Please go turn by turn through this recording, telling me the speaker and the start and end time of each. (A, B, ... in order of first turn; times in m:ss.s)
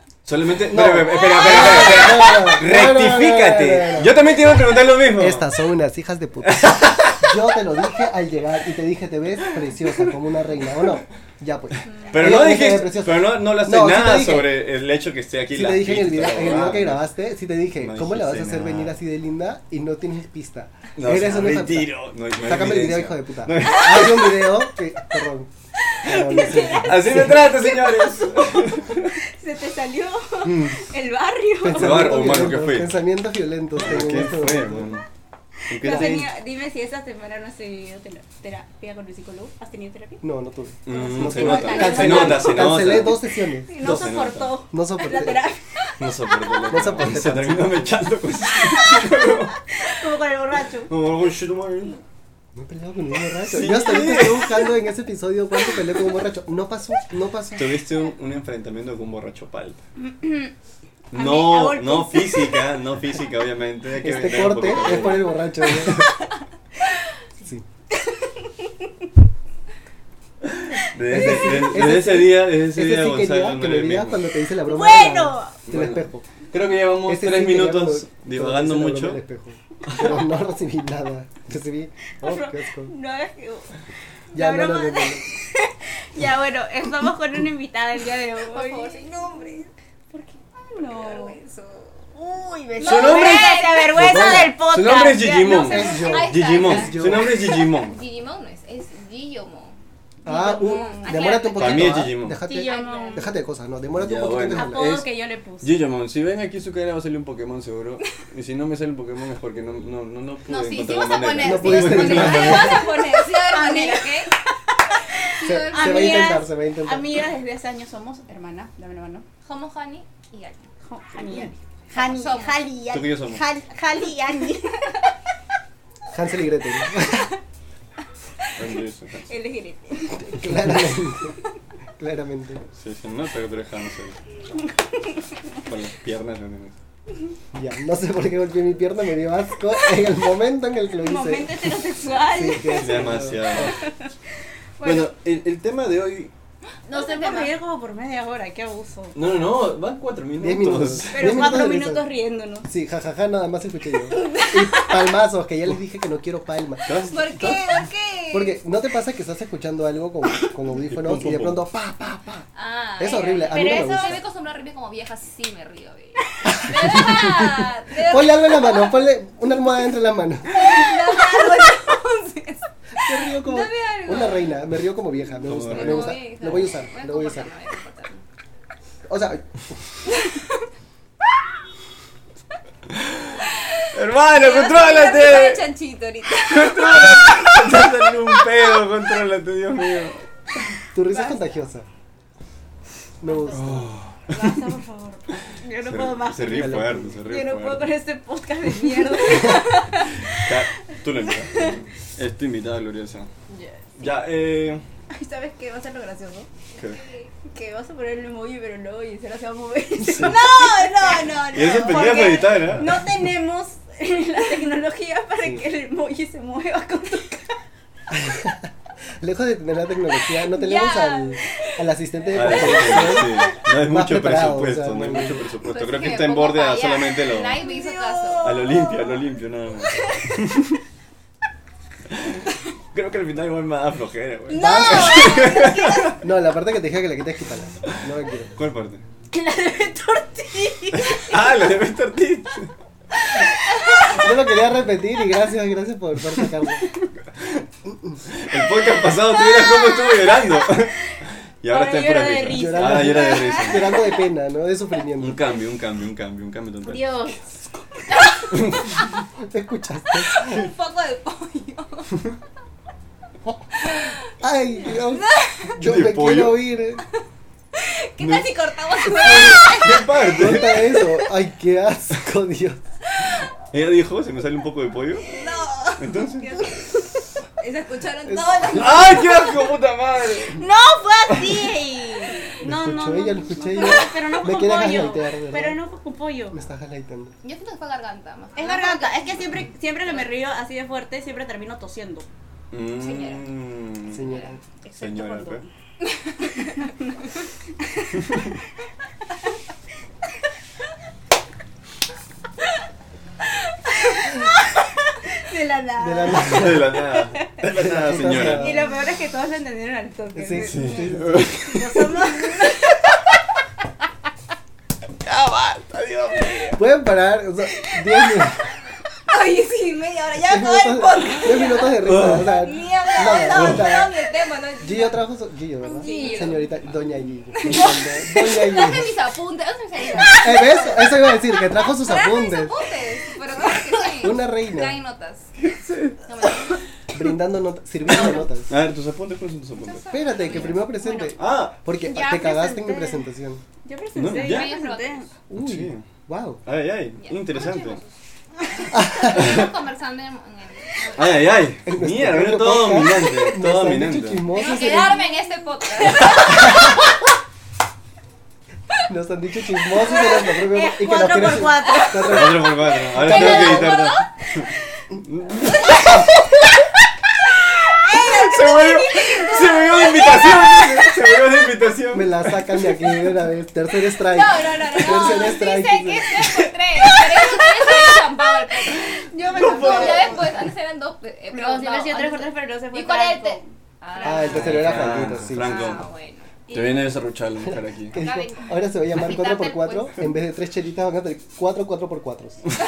0:00.2-0:05.4 A
0:00.7-0:04.2 B
0:01.2-0:02.2 C
0:05.1-0:14.6 B
0:06.4-0:07.4 A
0:11.9-0:12.3 D
0:12.1-0:17.1 A
0:15.5-0:25.5 B
0:17.8-0:19.0 A
0:21.0-0:24.4 A
0:26.0-0:27.5 B
0:26.1-0:28.6 C
0:26.3-0:29.2 A
0:29.2-0:32.2 C
0:30.4-0:30.9 A
0:31.6-0:35.0 B
0:31.8-0:32.9 A
0:33.8-0:35.0 A
0:35.7-0:36.3 A
0:35.7-0:40.2 C
0:35.8-0:36.2 B
0:40.2-0:43.7 B
0:40.9-0:43.2 A
0:40.9-0:42.9 C
0:43.7-0:45.9 C
0:43.8-0:44.6 A
0:44.7-0:45.4 B
0:46.0-0:49.6 A
0:46.7-0:48.1 B
0:48.5-0:50.9 C
0:50.9-0:52.0 A
0:52.6-0:57.8 B
0:53.4-0:54.7 A
0:57.5-0:59.8 A
1:00.0-1:00.5 C
1:01.1-1:05.9 A
1:01.1-1:02.6 C
1:04.0-1:06.1 B
1:08.0-1:08.9 C
1:10.7-1:14.2 A
1:11.1-1:16.2 B
1:14.6-1:15.6 C
1:15.7-1:19.2 A
1:17.0-1:22.9 B
1:19.9-1:20.2 A
1:22.2-1:23.7 C
1:24.3-1:25.2 B
1:24.3-1:31.4 C
1:28.5-1:29.6 D
1:30.7-1:32.0 D
1:32.1-1:35.4 C
1:32.8-1:34.0 D
1:32.8-1:38.0 A
1:34.0-1:34.6 B
1:35.0-1:39.8 D
1:35.5-1:37.3 B
1:40.2-1:45.0 B
1:40.3-1:43.3 C
1:40.4-1:43.3 D
1:41.6-1:42.4 A
1:44.0-1:52.8 A
1:44.4-1:45.8 C
1:50.5-1:54.3 D
1:51.4-1:52.8 B
1:52.5-1:59.3 C
1:55.3-1:56.3 D
1:55.4-1:57.1 B
1:59.4-2:00.7 D
2:00.8-2:05.0 C
2:01.3-2:02.6 D
2:02.9-2:03.4 A
2:06.1-2:07.3 B
2:08.6-2:09.3 A
2:09.3-2:10.5 C
2:10.2-2:11.4 B
2:12.0-2:12.6 B
2:12.8-2:14.2 A
2:15.6-2:16.8 A
2:17.5-2:21.5 B
2:21.0-2:24.1 C
2:22.3-2:23.8 B
2:22.7-2:23.8 A
2:24.8-2:25.1 C
2:24.8-2:26.3 A
2:26.9-2:27.5 D
2:26.9-2:29.2 C
2:29.1-2:31.5 A
2:30.4-2:32.0 B
2:31.1-2:32.7 C
2:32.6-2:36.9 B
2:34.2-2:34.9 C
2:36.9-2:37.6 A
2:37.1-2:38.6 D
2:38.3-2:42.4 B
2:40.8-2:41.6 A
2:42.6-2:49.0 D
2:43.0-2:44.2 B
2:43.1-2:44.2 C
2:46.4-2:50.8 B
2:50.5-2:54.6 D
2:53.0-2:57.5 B
2:55.4-2:56.2 A
2:55.6-2:58.2 D
2:59.1-2:59.7 B
3:00.2-3:00.6 D
3:02.9-3:05.7 A
3:03.4-3:07.9 D
3:06.3-3:10.3 A
3:10.9-3:11.9 B
3:13.2-3:13.9 B
3:13.2-3:20.5 C
3:13.5-3:14.6 A
3:15.8-3:17.9 A
3:16.5-3:17.2 B
3:20.3-3:23.3 A
3:23.5-3:24.2 C
3:24.0-3:24.8 A
3:25.1-3:26.5 C
3:26.8-3:27.3 D
3:27.5-3:37.6 C
3:30.1-3:30.4 A
3:30.8-3:31.2 D
3:31.5-3:33.1 A
3:38.1-3:38.7 B
3:39.2-3:45.5 B
3:40.5-3:41.4 D
3:42.3-3:47.6 A
3:45.6-3:48.7 D
3:47.6-3:49.2 C
3:48.4-3:50.8 A
3:52.9-3:56.2 A
3:54.5-3:56.2 C
3:54.5-3:55.5 B
3:56.2-3:58.5 B
3:58.6-3:59.0 A
3:59.3-4:01.4 C
4:00.9-4:02.7 A
4:03.4-4:04.2 C
4:04.1-4:06.9 B
4:07.9-4:08.2 B
4:08.3-4:13.9 A
4:09.4-4:10.3 C
4:11.7-4:14.0 C
4:12.5-4:15.4 B
4:15.2-4:17.3 A
4:16.8-4:17.4 C
4:18.5-4:19.0 A
4:19.4-4:20.6 B
4:20.3-4:22.1 D
4:23.8-4:24.2 D
4:24.4-4:27.0 B
4:25.0-4:25.7 D
4:25.8-4:26.6 A
4:27.8-4:30.9 D
4:28.2-4:28.5 A
4:29.1-4:29.6 B
4:29.1-4:31.0 A
4:30.3-4:32.8 B
4:33.4-4:35.3 A
4:35.3-4:36.9 D
4:36.0-4:36.5 A
4:36.4-4:37.2 C
4:37.6-4:39.6 D
4:38.3-4:39.2 B
4:38.7-4:40.6 A
4:40.6-4:46.6 C
4:42.6-4:45.8 B
4:46.5-4:47.3 B
4:47.4-4:50.3 D
4:48.6-4:52.3 C
4:52.7-4:54.3 A
4:53.0-4:53.5 D
4:54.1-4:54.6 B
4:54.2-4:54.6 D
4:54.8-4:55.7 C
4:54.9-4:55.6 A
4:57.9-4:58.2 C
4:58.2-4:58.4 A
5:03.9-5:07.4 C
5:06.0-5:07.0 B
5:06.4-5:08.8 A
5:07.6-5:08.9 B
5:08.4-5:12.8 C
5:10.4-5:11.6 B
5:10.5-5:12.0 A
5:15.2-5:16.8 A
5:16.8-5:18.7 B
5:19.3-5:21.9 D
5:20.4-5:24.1 B
5:20.6-5:22.0 C
5:22.0-5:22.6 A
5:22.6-5:25.2 D
5:22.7-5:23.6 C
5:23.5-5:23.9 A
5:24.8-5:29.1 B
5:25.9-5:26.7 C
5:25.9-5:27.0 D
5:27.5-5:35.5 D
5:30.3-5:32.8 B
5:34.2-5:35.0 B
5:35.7-5:36.2 A
5:36.3-5:36.8 D
5:37.1-5:38.7 B
5:38.7-5:40.2 A
5:39.8-5:41.4 D
5:40.1-5:43.6 B
5:40.5-5:41.3 C
5:41.4-5:41.8 A
5:42.1-5:42.7 D
5:42.1-5:43.3 C
5:43.8-5:45.3 C
5:44.2-5:44.8 A
5:44.4-5:45.3 D
5:45.5-5:46.6 B
5:45.5-5:46.1 A
5:46.6-5:48.0 A
5:47.2-5:48.2 D
5:48.7-5:51.6 D
5:48.9-5:49.7 B
5:49.3-5:49.7 A
5:51.2-5:54.4 A
5:51.8-5:55.2 B
5:54.5-5:57.0 D
5:54.6-5:55.6 C
5:56.4-5:57.0 B
5:59.1-6:04.0 B
6:00.0-6:04.7 C
6:02.2-6:06.9 A
6:05.8-6:06.2 C
6:07.5-6:13.1 A
6:08.0-6:10.6 C
6:12.1-6:16.5 B
6:14.2-6:26.6 D
6:15.1-6:15.6 C
6:17.4-6:18.0 C
6:19.3-6:20.6 C
6:19.7-6:20.2 A
6:21.5-6:23.6 C
6:24.2-6:26.0 B
6:24.3-6:26.1 A
6:26.7-6:26.9 C
6:26.7-6:28.2 A
6:28.1-6:32.7 B
6:28.1-6:30.2 D